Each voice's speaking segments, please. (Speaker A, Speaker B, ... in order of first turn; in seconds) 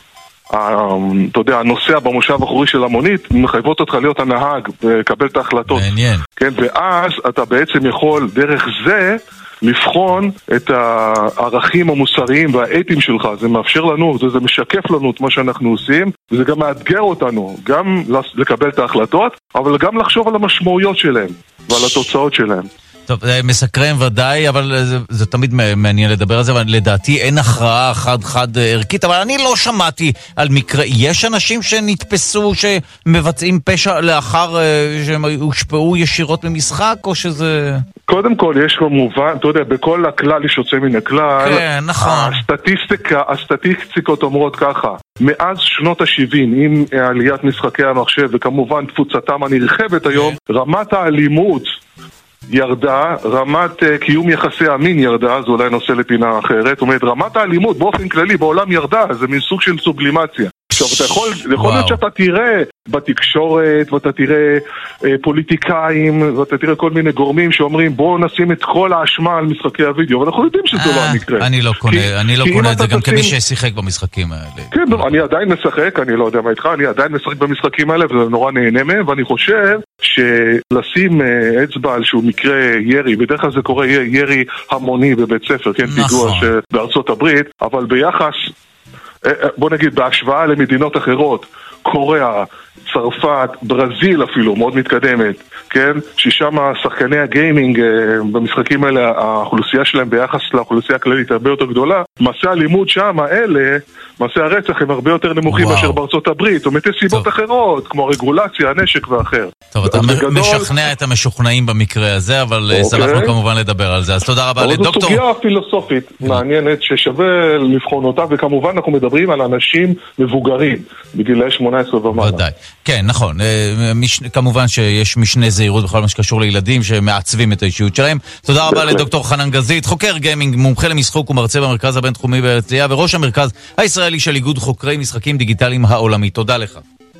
Speaker A: 0.5-22.7, 38.1-51.8, 52.5-73.3, 74.7-88.5, 89.2-110.7, 112.7-113.3, 114.6-122.4, 128.6-129.1
Speaker B: 5.7-6.2, 23.1-37.8, 41.4-42.4, 50.1-50.4, 61.6-62.0, 70.7-75.1, 85.8-86.5, 105.5-106.0, 109.7-115.2, 122.1-136.8